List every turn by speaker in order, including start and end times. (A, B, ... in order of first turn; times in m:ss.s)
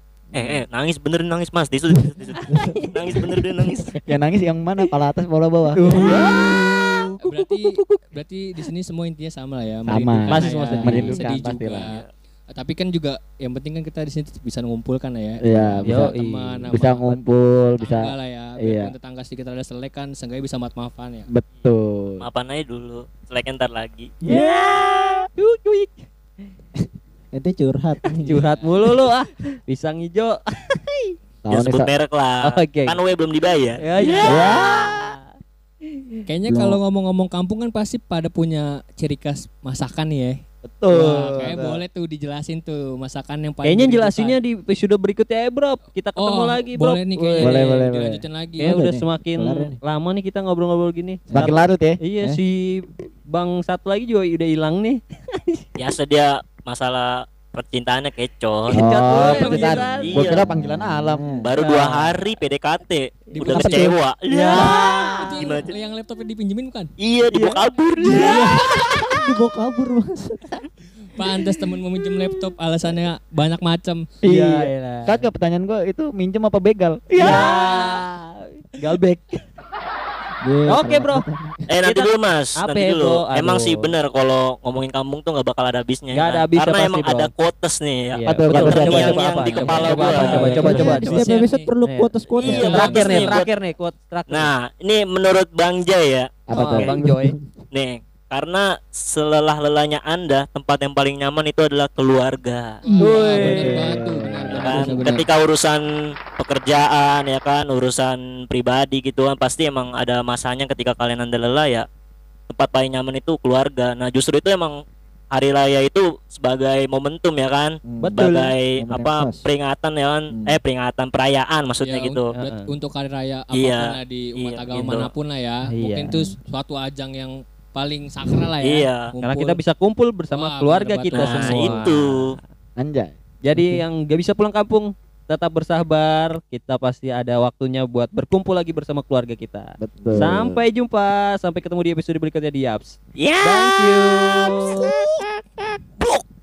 0:00.3-0:04.0 A
0:02.0-0:03.4 B
0:02.4-0:03.2 C
0:04.1-0:06.0 D
0:05.7-0:08.0 C
0:06.0-0:06.4 E
0:07.2-0:17.2 E
0:09.9-0:11.9 D
0:10.3-0:11.2 C
0:15.4-0:16.1 D
0:15.8-0:16.7 C
0:16.7-0:18.9 D
0:17.8-0:21.3 E
0:21.3-0:22.2 D
0:22.2-0:24.1 A
0:24.2-0:26.1 C
0:27.3-0:28.4 B
0:28.2-0:31.2 C
0:28.4-0:28.7 E
0:31.4-0:31.9 D
0:31.5-0:34.7 A
0:32.4-0:33.0 C
0:33.8-0:35.2 C
0:34.2-0:34.9 D
0:36.3-0:40.4 E
0:36.5-0:36.8 B
0:40.6-0:41.8 D
0:40.9-0:44.4 E
0:43.6-0:47.7 C
0:46.2-0:48.7 E
0:47.4-0:48.2 D
0:48.6-0:55.6 C
0:48.6-0:49.8 B
0:51.3-0:52.0 D
0:55.8-0:58.9 A
0:58.7-1:00.4 C
0:58.7-1:01.3 D
0:59.1-0:59.8 E
0:59.5-1:00.5 A
1:00.3-1:01.5 B
1:01.4-1:05.7 A
1:01.6-1:02.3 C
1:03.4-1:03.8 E
1:03.4-1:05.6 C
1:03.5-1:03.9 D
1:04.6-1:06.9 E
1:07.0-1:08.8 A
1:07.3-1:09.0 C
1:08.1-1:10.6 B
1:11.2-1:14.1 E
1:14.2-1:17.5 D
1:14.3-1:15.2 C
1:17.1-1:19.4 C
1:20.4-1:21.6 B
1:20.7-1:21.3 C
1:21.7-1:30.8 A
1:21.8-1:23.9 C
1:26.1-1:27.3 C
1:28.1-1:34.5 C
1:28.3-1:31.2 D
1:30.0-1:33.3 B
1:30.6-1:31.7 E
1:32.3-1:33.5 A
1:32.5-1:33.4 D
1:34.3-1:36.9 A
1:36.5-1:36.9 D
1:36.5-1:37.4 C
1:36.8-1:37.4 B
1:37.7-1:42.8 A
1:42.8-1:45.2 E
1:42.9-1:43.8 B
1:43.0-1:43.9 C
1:43.4-1:44.6 D
1:44.5-1:45.2 B
1:44.6-1:45.8 A
1:46.4-1:51.9 A
1:52.5-1:54.8 A
1:55.3-2:02.3 A
1:57.9-1:59.4 B
1:58.0-1:58.6 C
2:00.3-2:00.6 B
2:01.8-2:09.6 E
2:02.3-2:02.7 C
2:03.5-2:05.1 A
2:05.7-2:06.3 C
2:08.6-2:09.1 A
2:09.2-2:12.4 C
2:10.3-2:11.8 E
2:11.1-2:12.2 A
2:12.8-2:13.2 D
2:13.4-2:25.0 C
2:13.5-2:13.8 B
2:19.8-2:20.6 D
2:23.2-2:25.3 A